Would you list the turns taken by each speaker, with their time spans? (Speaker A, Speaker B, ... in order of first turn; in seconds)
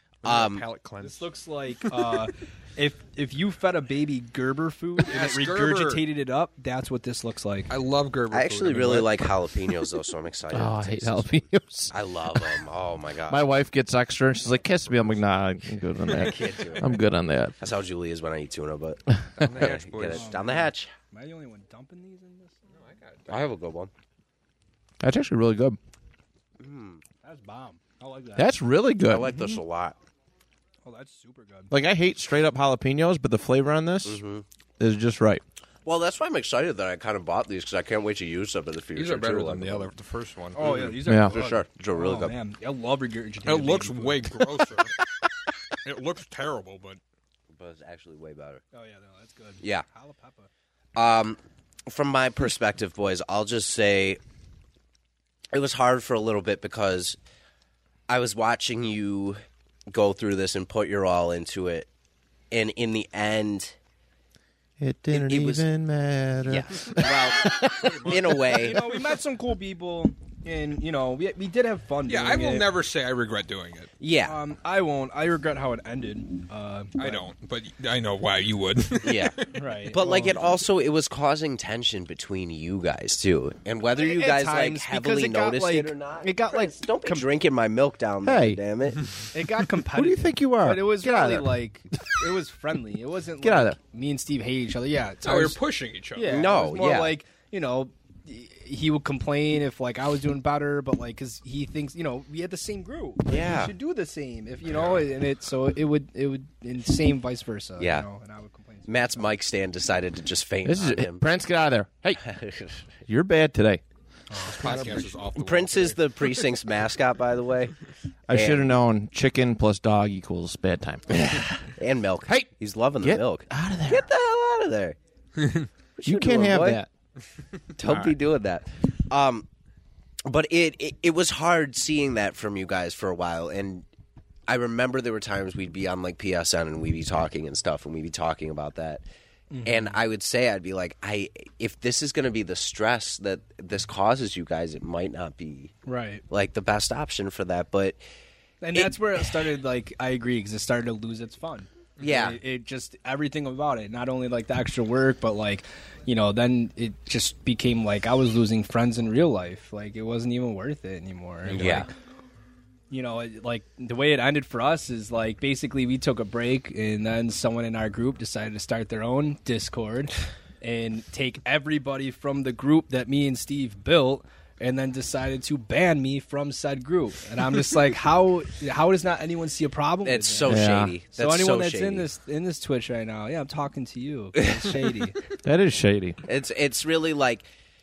Speaker A: 0.2-0.7, 8.3-13.5, 16.2-17.0, 17.6-20.9, 23.3-23.9, 26.6-27.0, 29.1-30.0, 34.0-34.5, 35.9-39.9, 40.6-42.3, 47.5-48.6, 51.0-54.2, 55.5-57.2, 58.1-61.9, 62.5-63.8, 65.1-65.7, 66.5-68.8, 74.0-74.4, 79.0-79.4, 79.9-89.1, 96.3-97.2, 103.3-103.7, 107.8-108.1, 108.9-111.3, 112.2-112.8, 114.6-117.8, 118.3-118.7, 121.1-125.0, 126.0-126.8, 127.8-129.5, 130.3-133.9, 134.5-139.0, 139.7-145.7, 146.3-148.0, 148.8-149.2, 152.0-152.4, 161.5-161.9, 180.1-182.1, 184.4-184.7, 186.3-187.5
Speaker B: 0.2-1.3, 5.0-6.0, 7.7-9.3, 19.4-20.4, 22.7-23.5, 39.0-40.8, 43.5-45.0, 45.8-47.0, 67.6-68.7, 72.1-73.9, 77.0-79.6, 95.2-96.4, 104.7-105.1, 114.6-116.5
Speaker C: 1.0-7.7, 20.1-22.6, 27.2-28.5, 30.9-31.8, 40.5-44.4, 48.7-50.5, 68.4-72.7, 74.2-77.3, 79.5-80.3, 84.0-87.3, 89.3-95.6, 96.1-109.3, 114.3-114.9, 139.5-140.0, 145.8-146.2, 148.6-161.9, 162.9-185.2
Speaker D: 10.5-12.6, 13.3-17.6, 25.0-25.8, 28.4-29.5, 31.7-34.2, 34.8-35.4, 41.1-41.3, 64.8-68.0, 88.2-88.6, 89.9-91.5, 93.4-93.8, 110.7-112.2, 113.1-113.8, 118.3-121.5, 123.0-124.1, 126.0-126.9, 127.9-128.1, 180.5-180.9, 185.4-186.2